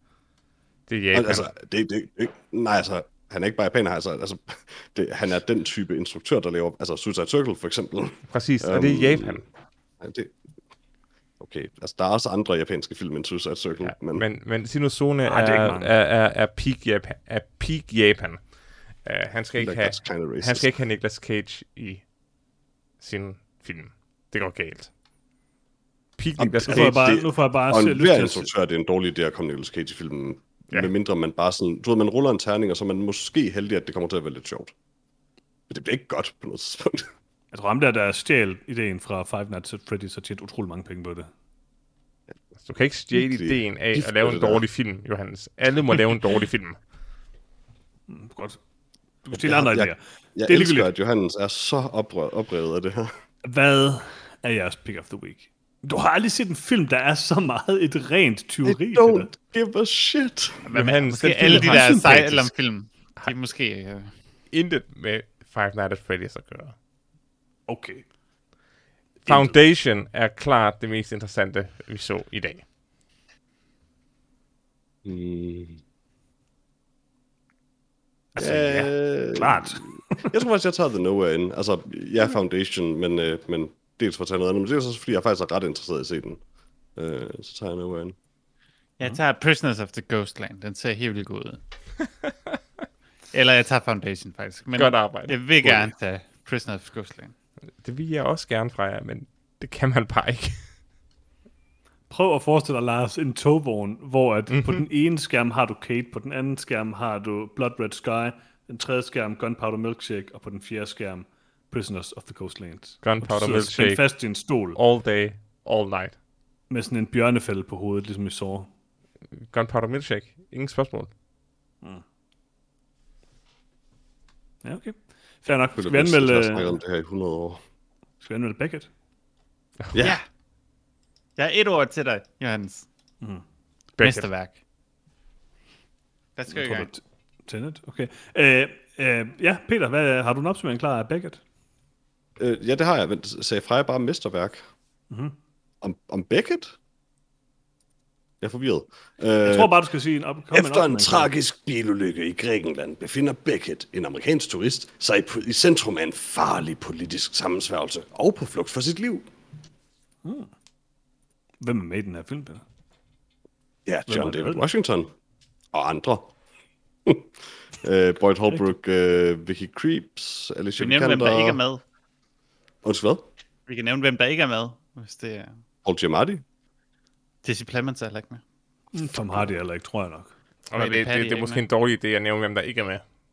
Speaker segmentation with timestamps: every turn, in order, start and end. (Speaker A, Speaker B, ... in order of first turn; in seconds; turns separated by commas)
Speaker A: 0.9-1.5, Speaker B: 1.1-9.5, Speaker A: 8.3-9.4, Speaker B: 10.0-10.3, Speaker B: 11.4-14.2, Speaker A: 13.8-22.1, Speaker C: 15.2-15.9, Speaker B: 19.6-20.7, Speaker A: 23.0-24.9, Speaker A: 26.2-27.1, Speaker B: 26.4-34.7, Speaker C: 26.7-28.5, Speaker B: 35.7-37.1, Speaker C: 37.5-41.3, Speaker A: 42.6-46.8, Speaker B: 43.1-44.6, Speaker C: 48.1-48.6, Speaker C: 49.2-50.9, Speaker B: 49.3-53.1, Speaker C: 53.4-59.3, Speaker B: 58.6-60.6, Speaker D: 60.6-64.2, Speaker A: 60.7-62.5, Speaker B: 61.5-62.5, Speaker A: 64.5-66.8, Speaker C: 67.7-68.0, Speaker C: 69.2-69.6, Speaker A: 69.3-72.7, Speaker B: 75.0-75.8, Speaker C: 78.3-80.4, Speaker B: 78.4-86.4, Speaker B: 87.0-88.2, Speaker D: 89.0-91.6, Speaker D: 93.3-97.3, Speaker A: 94.8-95.4, Speaker A: 97.8-100.6, Speaker C: 102.1-114.8, Speaker A: 104.5-104.8, Speaker A: 113.0-114.1, Speaker A: 114.8-116.2, Speaker C: 116.7-118.7, Speaker A: 119.5-121.1, Speaker C: 124.6-126.8, Speaker B: 125.8-127.6, Speaker C: 128.2-128.9, Speaker B: 129.9-130.2, Speaker D: 130.0-130.3, Speaker D: 131.4-132.9, Speaker A: 134.0-134.3, Speaker D: 134.0-134.6, Speaker D: 136.4-136.9, Speaker C: 136.5-141.4, Speaker B: 142.4-144.6, Speaker C: 145.1-145.3, Speaker B: 145.8-146.8, Speaker B: 148.4-149.8, Speaker C: 149.4-151.3, Speaker B: 150.5-159.3, Speaker C: 160.2-160.5, Speaker C: 161.6-162.6, Speaker B: 163.9-165.1, Speaker C: 164.1-164.7, Speaker B: 165.7-166.3, Speaker B: 167.1-171.6, Speaker D: 170.8-171.8, Speaker B: 172.8-173.3, Speaker D: 173.7-175.6, Speaker B: 175.8-176.4, Speaker D: 177.4-178.4, Speaker C: 178.9-180.3, Speaker B: 179.1-179.5, Speaker A: 180.7-183.1, Speaker D: 180.7-181.6